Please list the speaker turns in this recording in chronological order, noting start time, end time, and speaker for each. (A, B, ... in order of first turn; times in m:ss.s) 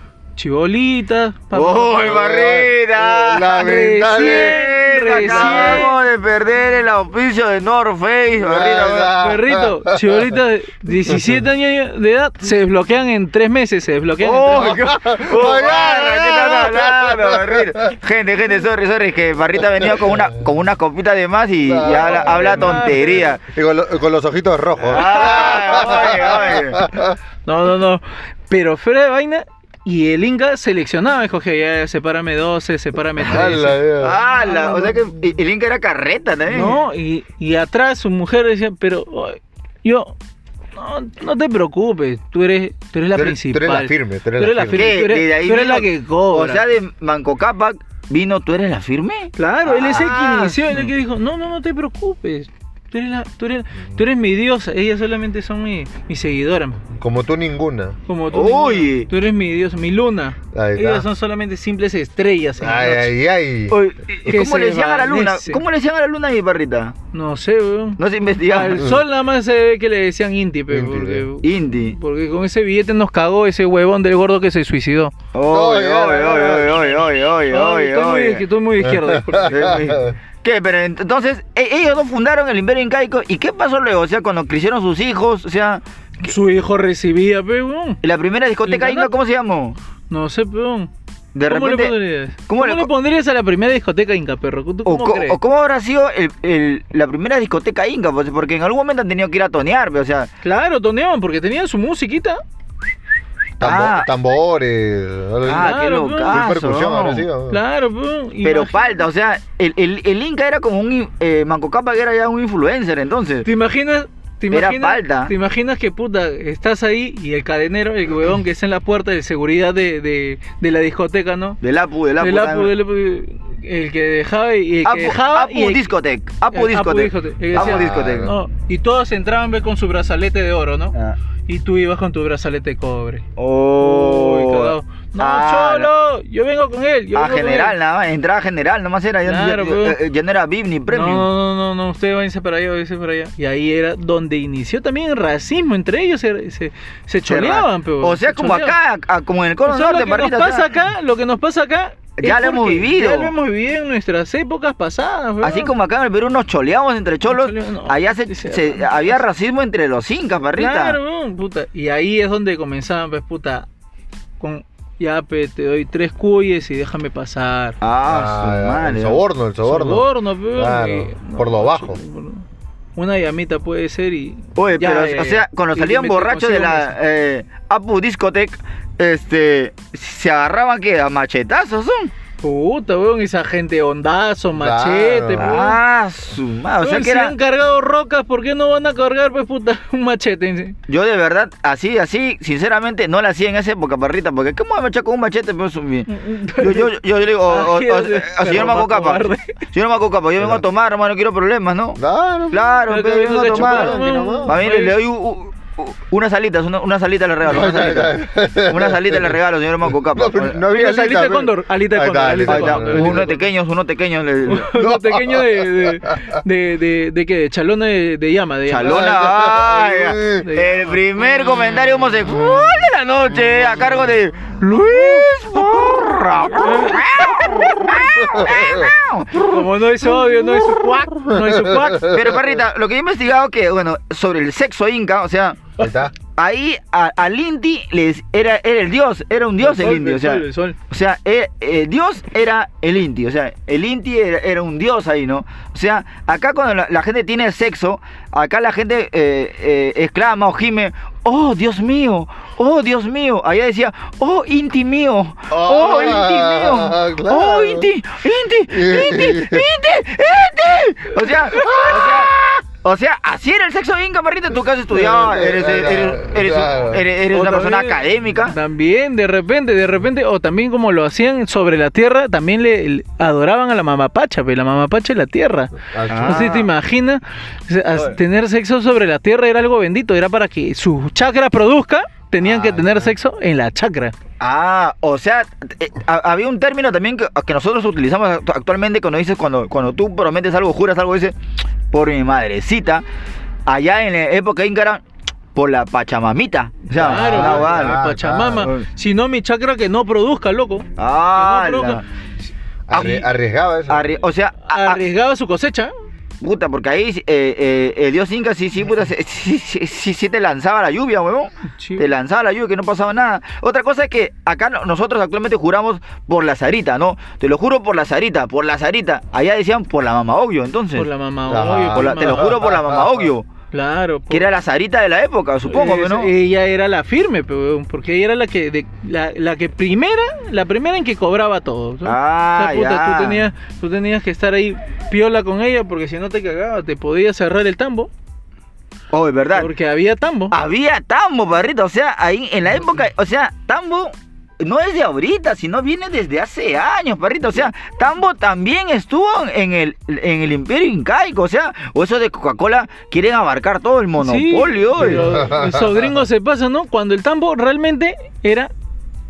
0:00.4-0:02.0 A
0:01.5-0:09.1 B
0:02.0-0:04.6 C
0:03.5-0:05.9 A
0:05.2-0:05.9 C
0:08.4-0:10.2 C
0:09.2-0:14.9 A
0:14.2-0:23.4 B
0:14.6-0:17.9 C
0:19.8-0:20.2 C
0:21.7-0:27.2 C
0:22.1-0:23.0 A
0:24.8-0:26.8 B
0:25.4-0:25.8 A
0:27.4-0:33.8 A
0:33.2-0:34.2 C
0:34.0-0:36.8 B
0:34.3-0:35.0 A
0:36.5-0:40.1 A
0:40.7-0:46.6 A
0:43.1-0:44.9 C
0:44.7-0:50.7 B
0:49.4-0:56.8 A
0:56.9-0:58.0 C
0:58.1-1:03.1 A
0:58.3-0:59.1 B
1:00.5-1:01.1 C
1:02.6-1:03.8 C
1:03.7-1:06.9 B
1:04.1-1:05.6 A
1:07.1-1:15.1 A
1:08.0-1:08.9 B
1:10.7-1:11.3 C
1:11.4-1:12.0 B
1:15.3-1:18.4 B
1:15.5-1:16.9 C
1:16.5-1:17.0 A
1:17.5-1:19.8 A
1:18.8-1:20.2 C
1:19.5-1:25.8 B
1:26.2-1:28.0 A
1:28.0-1:29.8 B
1:28.6-1:29.1 A
1:30.1-1:30.9 A
1:31.3-1:31.9 B
1:31.4-1:35.4 A
1:32.5-1:32.9 B
1:34.8-1:40.3 B
1:40.4-1:42.4 A
1:43.6-1:47.6 C
1:43.6-1:44.1 B
1:45.4-1:47.3 B
1:45.5-1:46.5 A
1:47.5-1:49.0 A
1:48.4-1:53.4 B
1:53.4-2:01.6 A
1:54.5-1:55.3 B
2:01.6-2:02.7 B
2:02.2-2:05.9 A
2:04.8-2:08.3 B
2:06.5-2:10.9 A
2:07.5-2:08.3 C
2:11.5-2:13.2 A
2:13.4-2:15.9 B
2:13.8-2:17.7 A
2:17.1-2:21.3 B
2:19.2-2:20.0 A
2:20.9-2:28.8 A
2:27.3-2:30.7 B
2:29.6-2:35.7 A
2:32.2-2:33.3 B
2:35.4-2:41.0 B
2:37.2-2:39.2 A
2:40.6-2:43.7 A
2:44.4-2:47.8 A
2:47.8-2:49.2 B
2:48.1-2:52.0 C
2:49.6-2:52.4 A
2:53.0-2:56.9 A
2:54.6-3:02.1 B
3:02.4-3:05.8 A
3:04.6-3:05.5 C
3:05.4-3:07.3 B
3:06.8-3:10.8 A
3:10.9-3:22.0 B
3:16.1-3:16.9 A
3:17.5-3:19.5 A
3:22.0-3:22.8 C
3:22.5-3:30.6 B
3:22.9-3:25.0 A
3:23.5-3:24.6 C
3:27.4-3:29.4 C
3:30.1-3:33.3 C
3:30.7-3:33.4 A
3:32.4-3:34.7 B
3:34.5-3:39.3 A
3:34.7-3:36.4 C
3:38.7-3:49.6 B
3:38.9-3:40.4 C
3:40.2-3:41.6 A
3:42.3-3:42.6 C
3:44.6-3:45.3 A
3:46.5-3:48.0 A
3:48.2-3:48.9 C
3:49.4-3:52.1 A
3:51.0-3:52.1 C
3:52.0-3:55.7 B
3:55.8-3:56.1 C
3:56.4-4:28.6 B
3:59.6-4:00.8 A
4:15.5-4:17.8 C
4:18.7-4:19.6 C
4:21.6-4:22.3 C
4:24.9-4:27.0 C
4:27.3-4:44.1 A
4:35.9-4:36.5 C
4:36.1-4:36.7 B
4:42.5-4:43.0 B
4:44.4-4:51.4 B
4:51.9-4:53.0 B
4:53.7-4:55.0 B
4:55.5-4:58.8 B
4:56.9-5:02.0 A
4:57.0-4:58.7 C
5:01.0-5:02.0 B
5:02.9-5:04.1 C
5:02.9-5:03.3 B
5:03.9-5:05.0 B
5:04.7-5:05.9 A
5:06.4-5:21.1 B
5:11.8-5:12.1 A
5:21.0-5:22.6 A
5:21.5-5:23.3 C
5:21.9-5:23.4 B
5:23.7-5:24.5 A
5:24.3-5:26.3 B
5:25.7-5:38.1 A
5:32.0-5:33.5 B
5:39.1-5:39.7 B
5:39.5-5:40.6 A
5:40.5-5:55.3 B
5:54.2-5:58.7 A
5:55.0-5:55.9 C